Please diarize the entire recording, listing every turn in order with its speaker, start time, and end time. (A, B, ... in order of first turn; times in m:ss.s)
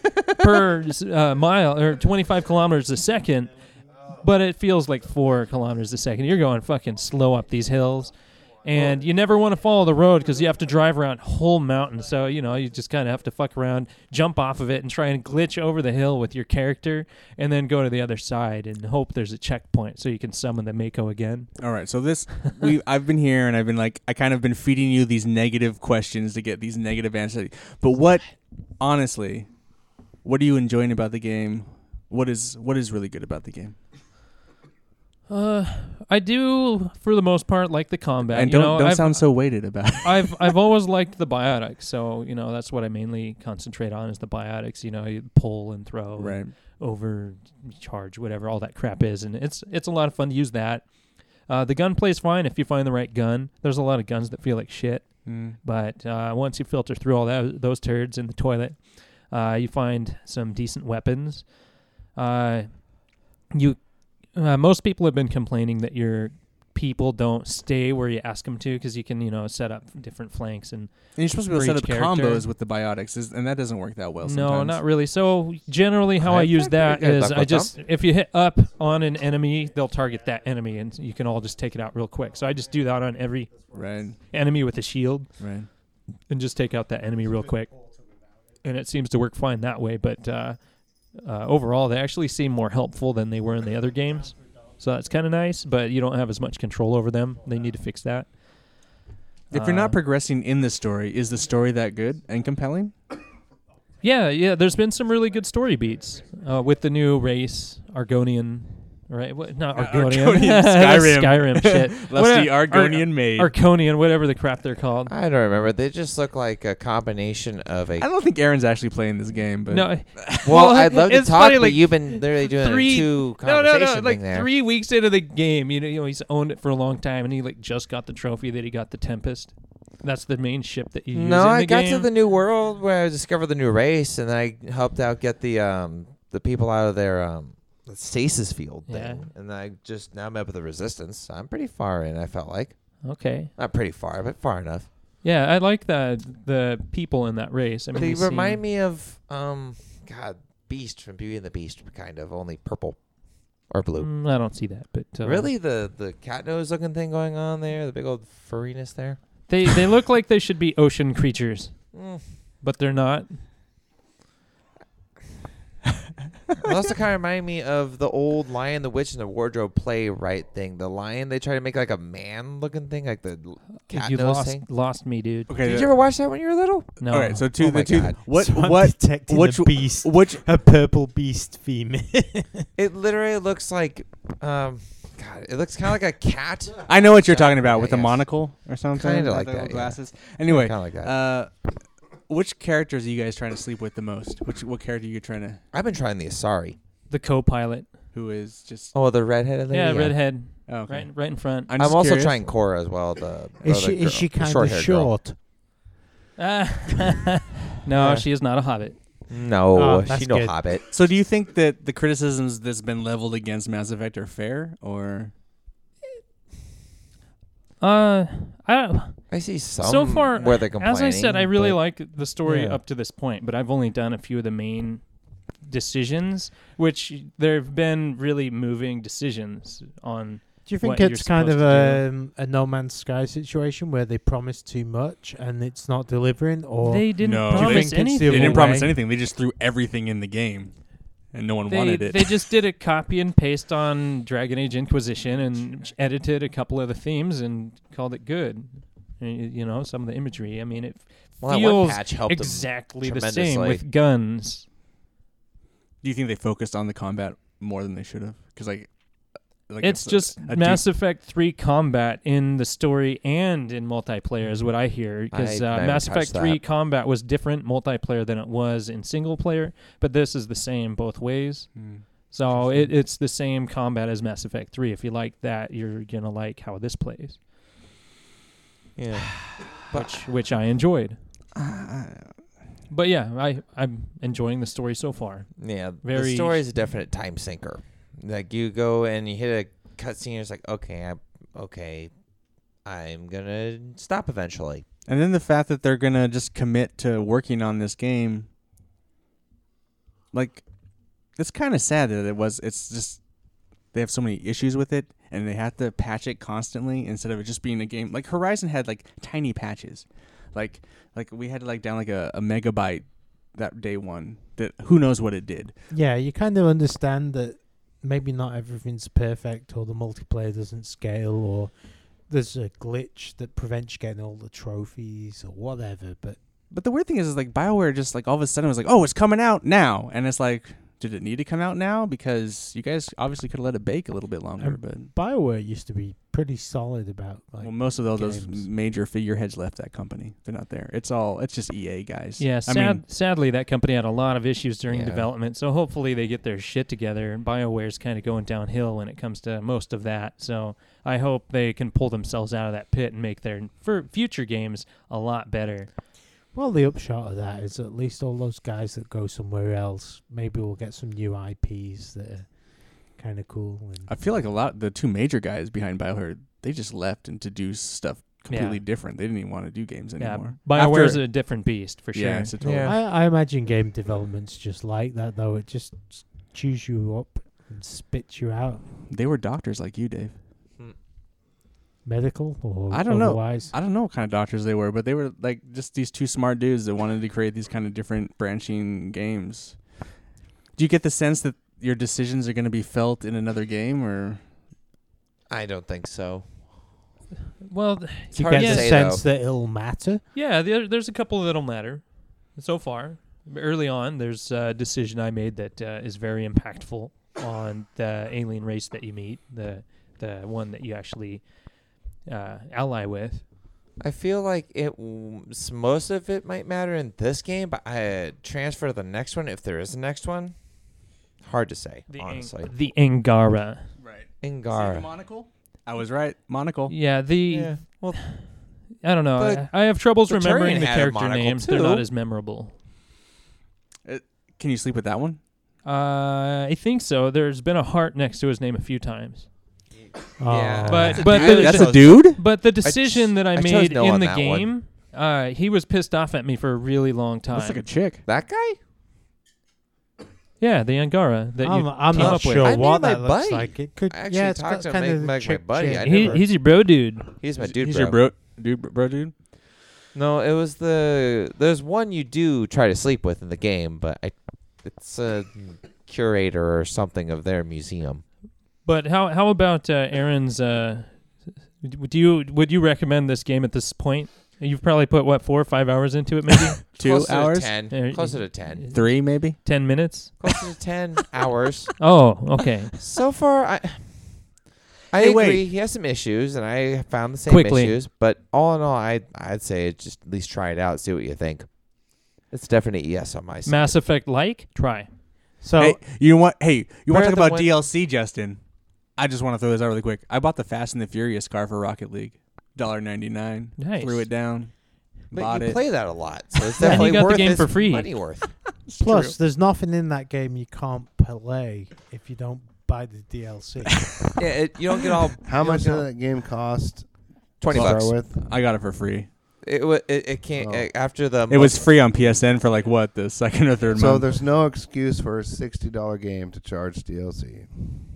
0:00.4-0:03.5 A
0:04.2-0:21.5 A
0:21.6-0:29.5 B
0:30.2-0:33.8 B
0:35.3-0:39.4 A
0:38.3-0:40.5 B
0:40.0-0:50.8 A
0:46.2-0:46.5 B
0:51.5-1:01.6 A
0:55.2-0:55.6 B
1:02.1-1:03.0 A
1:03.5-1:12.5 A
1:11.2-1:14.8 B
1:14.2-1:23.6 A
1:16.2-1:17.8 C
1:23.7-1:24.2 B
1:24.1-1:25.3 A
1:25.4-1:25.7 B
1:26.3-1:27.8 A
1:28.6-1:38.3 A
1:39.5-1:42.9 B
1:39.5-1:40.0 A
1:44.0-1:55.1 A
1:49.8-1:53.5 B
1:55.1-1:58.1 C
1:58.0-2:00.4 B
1:59.7-2:12.1 A
2:00.4-2:04.5 C
2:11.1-2:24.9 C
2:18.9-2:19.3 A
2:23.0-2:23.5 A
2:25.2-2:28.6 A
2:27.9-2:33.0 C
2:33.7-2:34.1 C
2:34.0-2:35.5 A
2:35.2-2:39.2 C
2:39.5-2:41.8 A
2:41.9-2:42.2 C
2:42.6-2:43.4 A
2:46.6-2:54.6 C
2:53.8-2:55.5 A
2:55.5-2:55.9 B
2:55.6-2:57.0 C
2:57.0-2:57.5 A
2:57.1-3:00.4 B
2:57.6-2:58.2 C
2:58.3-3:02.7 D
3:02.8-3:08.3 C
3:06.9-3:11.5 B
3:08.9-3:11.1 C
3:12.3-3:15.6 B
3:15.7-3:16.8 C
3:17.1-3:17.9 A
3:18.1-3:18.9 B
3:18.9-3:20.3 C
3:19.7-3:21.7 A
3:20.7-3:22.5 B
3:21.8-3:25.1 C
3:23.6-3:25.4 D
3:26.4-3:29.0 A
3:29.3-3:30.8 C
3:29.7-3:30.6 D
3:30.9-3:35.3 B
3:37.8-3:39.2 A
3:39.3-3:41.8 C
3:39.8-3:45.0 A
3:42.5-3:42.8 D
3:45.6-3:52.1 A
3:50.7-3:58.9 D
3:56.8-3:58.7 A
3:57.2-4:00.7 B
4:01.3-4:02.4 B
4:01.7-4:14.6 A
4:11.4-4:13.8 C
4:16.0-4:18.9 B
4:19.7-4:20.8 B
4:19.8-4:31.7 A
4:25.3-4:26.6 C
4:31.8-4:32.0 B
4:32.3-4:37.4 A
4:39.0-4:40.1 C
4:39.9-4:41.2 A
4:41.6-4:42.3 B
4:42.9-4:46.6 A
4:45.6-4:52.1 C
4:52.8-4:54.8 C
4:55.1-4:58.5 B
5:00.3-5:00.6 B
5:01.4-5:03.2 B
5:03.9-5:15.7 B
5:15.9-5:21.7 D
5:22.3-5:26.4 D
5:26.7-5:35.1 B
5:34.6-5:38.7 D
5:37.6-5:43.0 B
5:42.4-5:55.9 A
5:44.9-5:45.3 C
5:56.5-6:02.5 D
6:03.2-6:04.1 D
6:04.1-6:11.2 B
6:08.5-6:08.8 A
6:10.2-6:12.5 A
6:12.1-6:13.0 B
6:12.6-6:13.0 C
6:12.8-6:18.8 D
6:19.1-6:20.4 B
6:22.0-6:23.7 D
6:22.9-6:29.8 B
6:30.8-6:34.4 B
6:35.5-6:36.5 C
6:37.6-6:39.0 A
6:38.3-6:40.2 D
6:38.4-6:39.2 C
6:40.3-6:51.5 A
6:52.3-6:53.4 A
6:54.0-7:00.6 C
7:01.4-7:02.7 C
7:02.1-7:03.9 A
7:04.0-7:06.9 B
7:04.4-7:05.1 C
7:06.9-7:08.5 A
7:07.5-7:08.3 C
7:09.0-7:12.7 A
7:09.4-7:12.1 C
7:14.0-7:15.4 B
7:15.8-7:19.5 A
7:20.4-7:21.2 D
7:20.4-7:24.7 C
7:20.9-7:27.8 A
7:21.2-7:22.4 B
7:27.5-7:28.2 B
7:28.3-7:28.8 C
7:30.6-7:32.8 A
7:31.6-7:36.4 D
7:32.1-7:36.7 C
7:36.0-7:37.3 A
7:37.3-7:38.3 C
7:37.6-7:39.3 B
7:40.1-7:48.2 C
7:48.8-7:56.8 A
7:56.9-7:57.9 B
7:57.0-7:58.9 C
7:57.9-8:00.3 A
7:58.9-7:59.6 B
8:00.4-8:01.9 C
8:02.0-8:02.9 A
8:03.0-8:04.4 C
8:05.1-8:11.7 C
8:05.1-8:05.6 B
8:07.5-8:08.0 A
8:12.5-8:14.0 C
8:13.7-8:15.1 A
8:15.6-8:16.0 D
8:15.8-8:18.6 B
8:17.1-8:17.7 C
8:19.2-8:25.8 B
8:23.8-8:24.3 A
8:25.3-8:28.5 C
8:26.8-8:27.2 D
8:26.8-8:28.1 A
8:28.8-8:29.4 B
8:29.0-8:34.3 D
8:34.4-8:36.1 C
8:35.4-8:37.1 E
8:37.6-8:38.2 C
8:37.6-8:38.4 E
8:37.7-8:39.3 B
8:39.6-8:42.0 C
8:40.6-8:40.9 E
8:41.5-8:44.3 B
8:43.9-8:48.0 E